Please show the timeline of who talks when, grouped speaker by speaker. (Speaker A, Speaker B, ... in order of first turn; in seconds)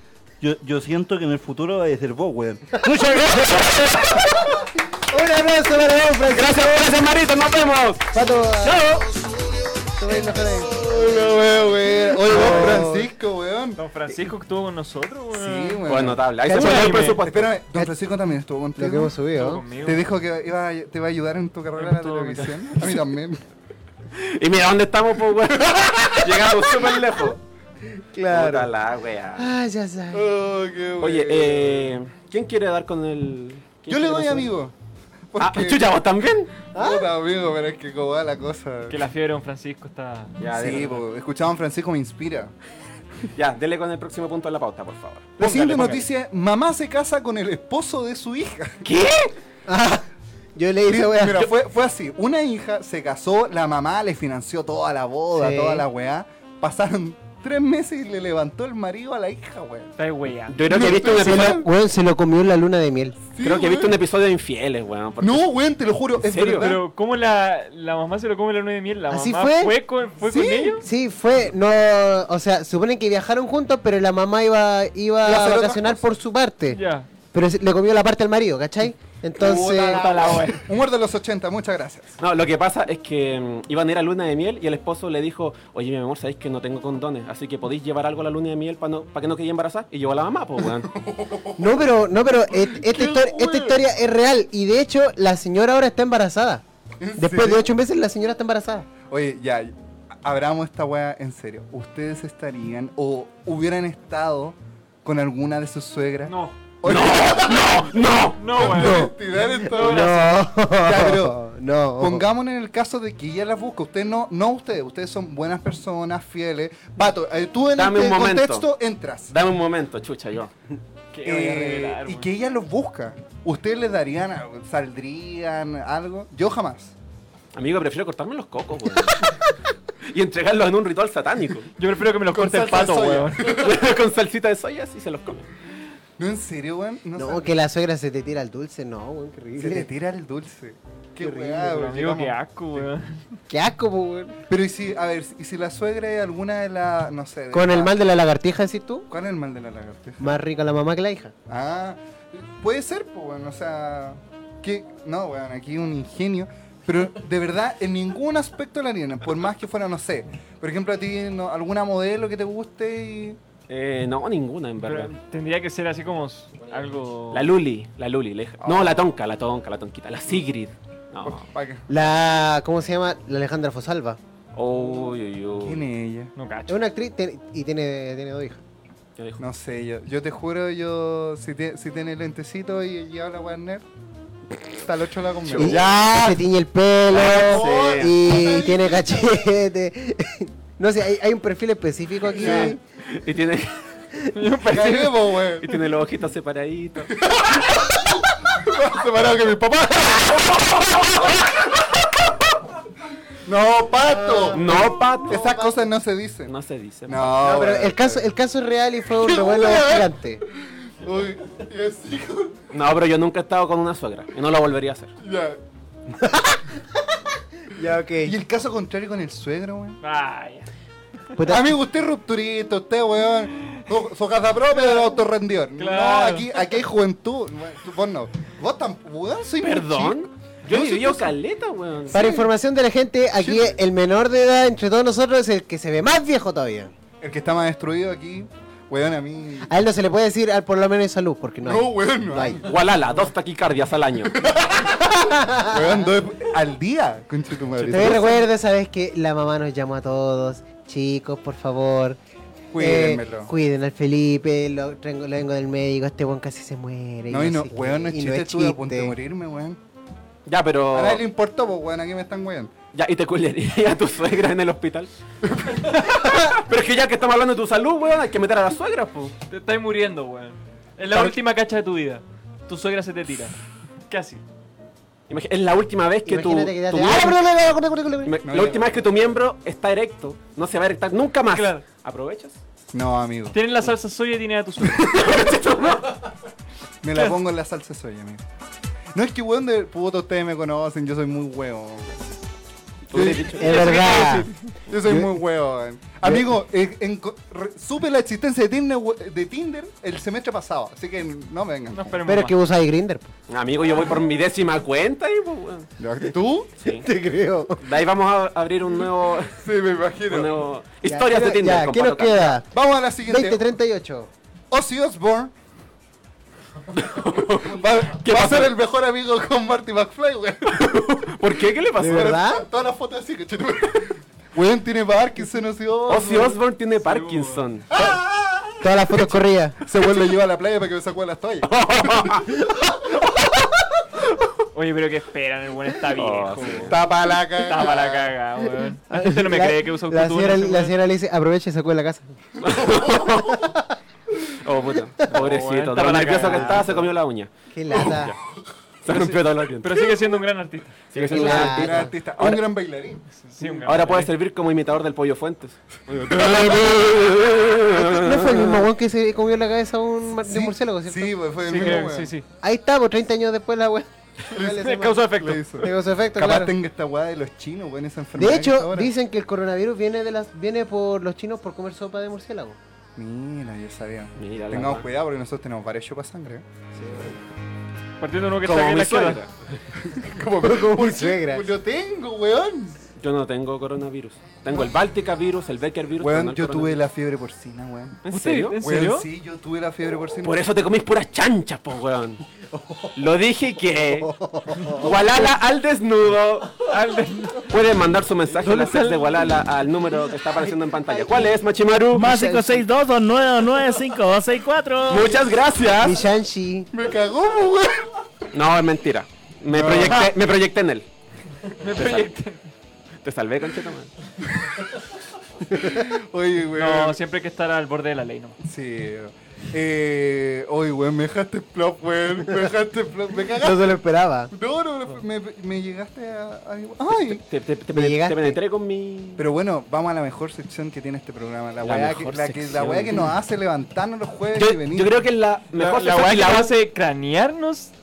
Speaker A: 0.4-4.2
Speaker B: 5.0-6.9, 8.1-9.0, 9.9-10.9, 11.9-13.1, 16.4-17.9, 18.8-19.6, 28.0-28.7, 29.4-30.2, 36.7-37.1, 49.7-51.5, 55.3-55.8, 61.0-63.2, 69.1-69.7, 70.3-76.8, 77.3-80.0, 91.6-96.6, 97.2-98.9, 108.6-109.1, 109.7-112.2, 137.2-139.9, 141.2-141.7, 143.5-144.4, 147.5-149.1, 150.2-151.3, 171.9-174.2, 176.7-178.6, 185.6-192.8, 204.1-205.8, 207.4-210.4, 216.2-216.6, 217.7-218.3, 221.4-221.7, 232.1-236.9, 239.7-242.6, 245.0-246.1, 247.8-252.2, 252.8-259.1, 276.2-278.4, 293.5-294.5, 295.1-295.3, 302.2-303.3, 306.9-307.9, 311.1-312.6, 313.2-314.3, 322.0-322.6, 328.8-329.8, 339.1-342.4, 343.5-343.9, 346.2-347.0, 347.7-348.4, 351.2-352.1, 357.9-361.3, 362.6-366.7, 368.4-372.8, 377.0-377.4, 380.6-381.7, 394.2-395.1, 401.0-401.6, 402.3-402.6, 406.0-406.9, 423.5-424.5, 427.9-428.6
Speaker C: 6.2-8.0, 15.8-17.6, 24.1-27.4, 28.3-29.5, 31.0-34.5, 35.4-36.5, 40.4-41.0, 43.3-46.1, 48.8-49.3, 60.5-61.6, 63.4-65.5, 66.2-66.7, 82.2-90.9, 106.8-108.4, 117.8-118.7, 119.3-120.5, 127.5-129.3, 130.0-131.7, 133.5-135.5, 163.7-165.1, 167.3-171.4, 174.5-175.8, 185.5-186.2, 187.1-188.2, 192.4-193.8, 195.6-197.1, 204.5-205.4, 206.5-207.4, 212.7-215.1, 229.6-232.3, 242.7-244.4, 260.4-261.2, 262.9-265.1, 265.9-269.4, 275.3-277.4, 278.2-282.6, 284.9-286.2, 293.1-294.4, 303.5-305.9, 306.8-307.1, 307.8-309.5, 310.3-312.6, 316.9-318.7, 320.7-322.4, 326.1-327.9, 331.7-332.5, 336.1-337.0, 342.6-343.6, 344.6-347.5, 349.0-350.0, 351.1-352.6, 353.8-358.8, 374.4-375.1, 378.6-379.7, 383.2-387.0, 388.2-388.8, 390.4-392.4, 393.1-394.3, 394.9-396.9, 397.6-402.7, 405.1-406.2, 408.5-411.1, 411.9-412.3, 413.2-414.1, 427.3-429.4, 431.8-433.3, 434.5-436.7
Speaker D: 10.7-13.8, 15.3-16.2, 17.2-19.1, 19.8-23.4, 30.1-31.9, 33.9-34.7, 35.3-35.9, 36.7-39.0, 40.5-42.5, 45.4-48.8, 50.9-59.9, 60.6-61.6, 63.3-64.0, 65.2-66.8, 70.3-70.8, 75.2-76.1, 79.4-82.2, 90.8-91.9, 92.5-93.8, 97.0-97.7, 99.0-110.1, 110.8-111.4, 112.0-119.3, 121.2-126.9, 132.3-133.9, 136.2-137.5, 139.6-142.9, 144.5-148.0, 149.1-150.4, 151.5-163.4, 168.6-169.0, 171.2-171.9, 175.6-176.3, 179.4-183.8, 184.7-185.9, 187.1-189.4, 192.3-192.8, 194.7-195.7, 197.1-201.6, 203.4-206.5, 207.1-208.3, 209.2-212.6, 215.2-215.6, 218.2-220.0, 221.4-231.3, 232.1-232.5, 233.3-233.8, 237.2-239.8, 241.6-242.6, 244.2-248.4, 252.7-253.5, 257.3-259.8, 260.9-262.7, 265.6-265.9, 278.4-279.1, 282.9-283.6, 287.0-288.4, 289.1-292.3, 293.1-302.2, 306.0-306.7, 309.5-310.6, 312.7-313.6, 314.7-315.5, 317.6-320.9, 322.0-326.6, 327.9-332.5, 336.8-338.3, 351.1-353.7, 356.1-357.0, 360.4-362.3, 364.5-369.1, 373.1-376.6, 380.0-383.0, 386.2-388.2, 388.8-390.6, 406.9-408.1, 409.7-410.3, 415.7-417.2, 418.6-424.0, 424.5-427.4, 429.4-435.1
Speaker E: 13.8-15.8, 16.5-17.2, 19.3-20.0, 21.8-22.9, 38.9-40.4, 60.0-60.7, 66.6-70.8, 76.7-77.1, 79.8-80.6, 106.2-106.6, 108.4-110.4, 121.1-122.3, 131.8-133.5, 141.6-143.2, 164.8-167.5, 176.3-176.8, 194.3-195.4, 220.0-220.7, 225.8-226.5, 269.5-273.6, 274.1-274.4, 281.5-281.9, 283.5-285.4, 301.9-302.6, 327.0-327.6, 334.7-336.9, 337.6-340.9, 345.3-346.9, 349.1-351.1, 353.4-354.3, 361.6-362.4, 364.6-365.9, 378.2-379.4, 388.3-389.3, 396.8-397.7, 398.6-399.5, 411.8-412.6, 416.7-418.6, 435.7-437.9
Speaker F: 402.1-405.4